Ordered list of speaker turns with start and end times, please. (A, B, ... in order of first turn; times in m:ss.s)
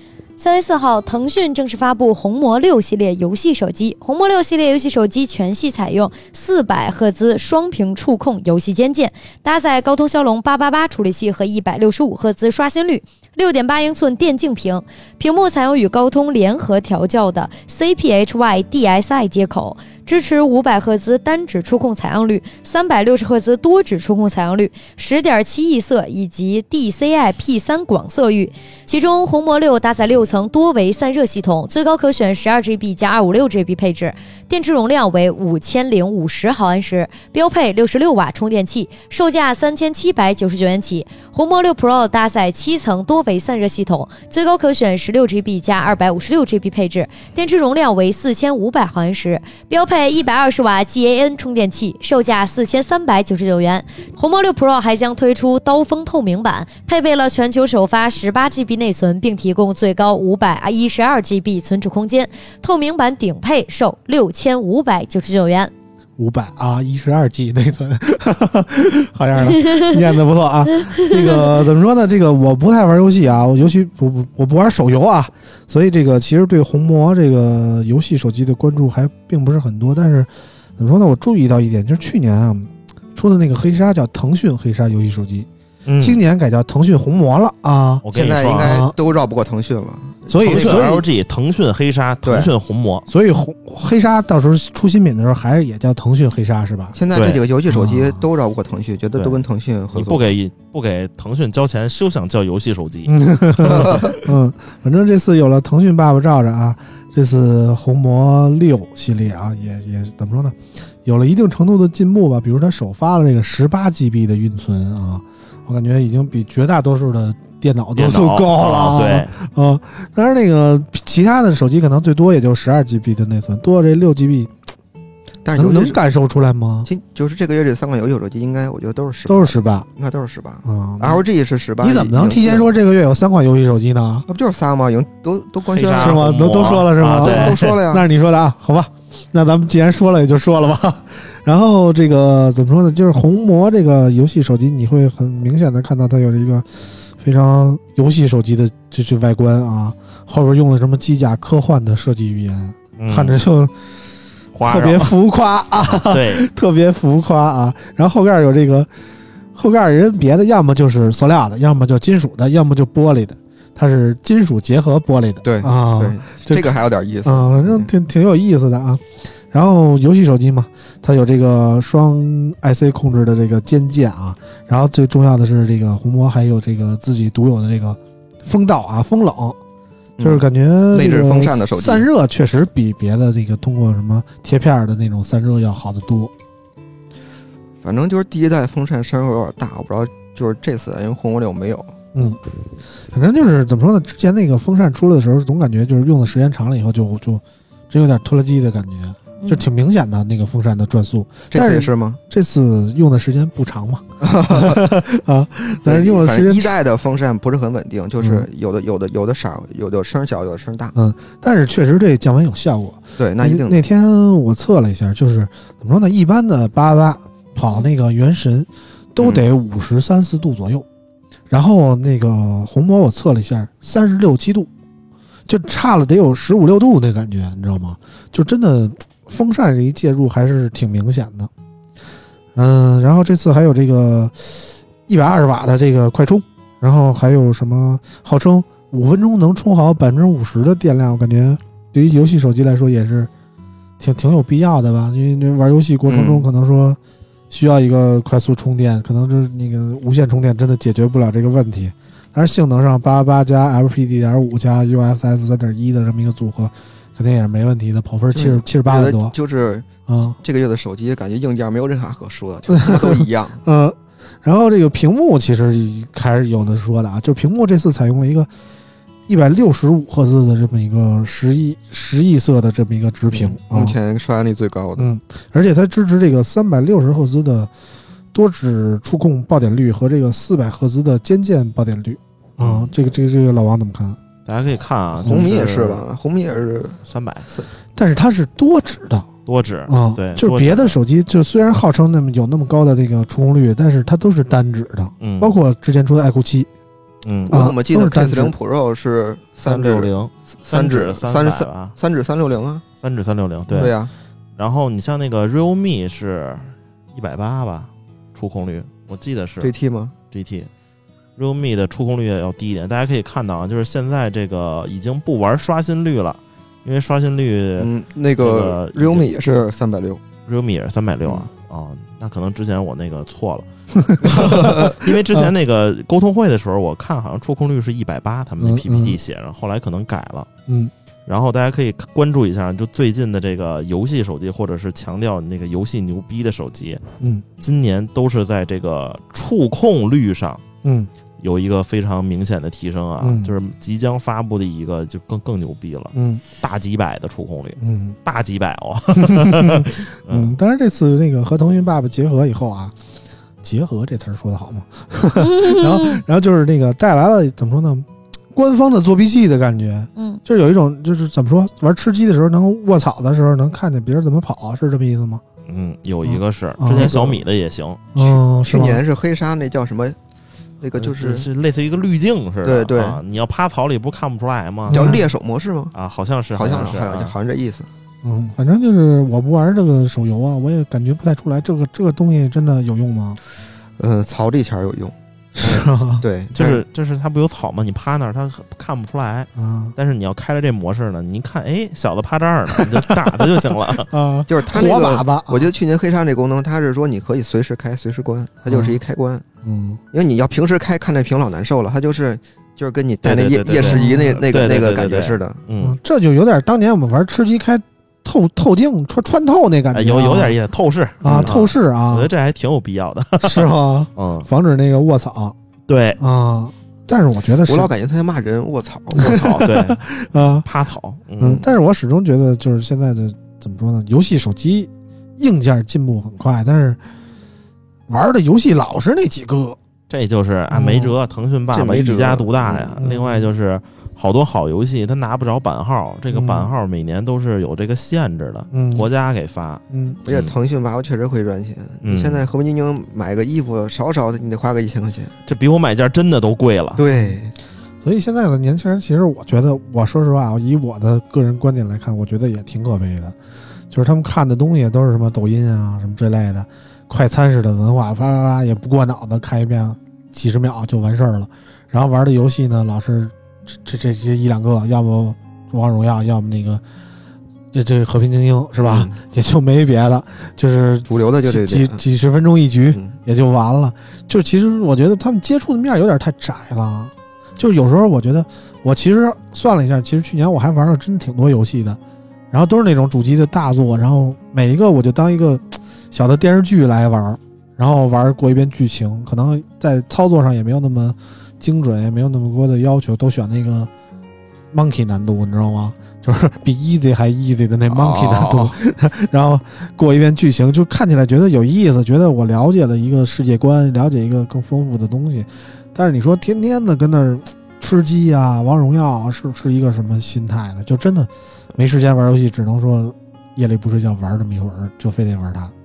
0:00.4-1:05.7 A
1:06.2-1:25.5 B
1:09.5-1:09.8 A
1:25.8-1:26.2 C
1:26.0-1:28.0 B
1:28.0-1:28.8 C
1:28.1-1:31.0 D
1:28.6-1:28.9 B
1:30.3-1:31.0 B
1:30.4-1:33.1 C
1:32.2-1:32.5 D
1:33.1-1:37.0 B
1:36.9-1:40.4 D
1:37.1-1:37.4 C
1:37.7-1:38.2 B
1:39.2-1:39.4 C
1:39.9-1:44.1 C
1:43.0-2:04.6 B
1:43.8-1:44.0 D
1:58.0-1:59.3 C
2:05.4-2:06.0 D
2:05.6-2:06.9 B
2:06.8-2:12.7 D
2:09.3-2:09.9 B
2:10.6-2:11.2 B
2:11.8-2:14.3 B
2:14.3-2:16.2 D
2:15.7-2:17.8 C
2:15.9-2:33.8 B
2:17.2-2:18.0 D
2:33.0-2:33.4 C
2:34.5-2:35.1 C
2:34.6-2:38.9 B
2:35.8-2:36.4 C
2:39.5-2:59.6 B
2:45.4-2:47.9 D
3:00.2-3:02.0 D
3:00.2-3:06.3 B
3:07.8-3:12.0 D
3:13.1-3:26.7 B
3:21.5-3:22.2 D
3:24.2-3:24.9 D
3:25.8-3:30.9 D
3:28.2-3:28.5 B
3:30.9-3:40.8 B
3:33.2-3:33.8 D
3:41.5-3:44.7 B
3:45.5-3:51.5 B
3:52.5-4:03.3 B
4:04.0-4:07.0 B
4:06.1-4:06.4 D
4:07.5-4:19.3 B
4:18.3-4:23.6 D
4:20.1-4:20.4 B
4:22.7-4:28.5 B
4:29.3-4:34.0 B
4:33.3-4:35.1 D
4:35.0-4:37.7 B
4:38.3-4:44.2 B
4:42.6-4:42.9 C
4:44.4-4:46.0 C
4:45.2-4:45.5 B
4:45.2-4:47.0 D
4:47.0-4:47.5 C
4:48.0-4:49.3 B
4:49.4-4:51.0 C
4:49.9-4:56.7 B
4:55.2-4:55.5 C
4:57.2-4:57.7 C
4:57.5-5:00.1 D
4:57.5-4:58.5 B
4:59.6-5:01.9 C
5:00.6-5:02.8 D
5:03.0-5:04.0 C
5:03.7-5:04.1 D
5:04.6-5:09.7 C
5:09.6-5:10.1 D
5:10.3-5:10.7 C
5:11.4-5:19.3 C
5:17.8-5:20.2 D
5:20.5-5:30.5 C
5:23.9-5:25.5 B
5:24.2-5:25.0 D
5:28.6-5:29.2 B
5:30.7-5:30.9 B
5:31.3-5:37.0 C
5:37.2-5:37.4 B
5:37.6-5:40.6 C
5:40.8-5:41.1 B
5:41.4-5:50.5 C
5:43.2-5:43.5 B
5:46.1-5:46.4 B
5:47.8-5:48.2 B
5:49.1-5:52.9 B
5:53.6-6:05.4 B
6:00.2-6:00.4 A
6:05.7-6:08.2 C
6:06.2-6:07.2 B
6:07.0-6:07.4 D
6:08.1-6:09.0 B
6:08.2-6:10.2 D
6:10.8-6:11.4 D
6:10.9-6:15.2 C
6:12.6-6:13.2 D
6:14.9-6:15.2 B
6:14.9-6:15.9 D
6:15.9-6:17.3 C
6:16.5-6:17.9 D
6:18.2-6:23.4 B
6:24.0-6:26.8 D
6:25.6-6:26.2 B
6:26.5-6:34.1 C
6:29.6-6:29.9 B
6:32.8-6:33.4 B
6:34.1-6:35.7 B
6:34.5-6:39.4 D
6:38.6-6:39.0 B
6:39.6-6:40.0 B
6:40.1-6:45.6 D
6:43.2-6:46.0 C
6:43.8-6:44.4 B
6:45.8-6:50.6 B
6:49.9-6:54.5 C
6:51.2-6:52.3 B
6:51.2-6:51.6 D
6:53.4-6:55.5 B
6:55.9-6:56.2 C
6:56.2-6:57.9 B
6:57.6-6:59.4 D
6:59.2-7:00.6 B
6:59.2-7:00.0 C
7:00.6-7:01.6 C
7:01.4-7:07.0 B
7:08.1-7:09.8 B
7:10.1-7:20.5 C
7:10.7-7:11.2 B
7:11.7-7:12.9 D
7:13.0-7:13.5 B
7:16.3-7:16.7 B
7:18.7-7:19.1 B
7:19.9-7:20.2 B
7:20.2-7:25.3 D
7:22.0-7:22.4 C
7:25.5-7:27.0 C
7:27.0-7:27.5 D
7:28.0-7:33.4 B
7:33.9-7:46.8 B
7:47.7-8:02.0 B
7:48.8-7:49.2 D
7:51.1-7:52.0 D
8:02.5-8:13.9 B
8:14.7-8:35.7 B
8:17.9-8:18.8 C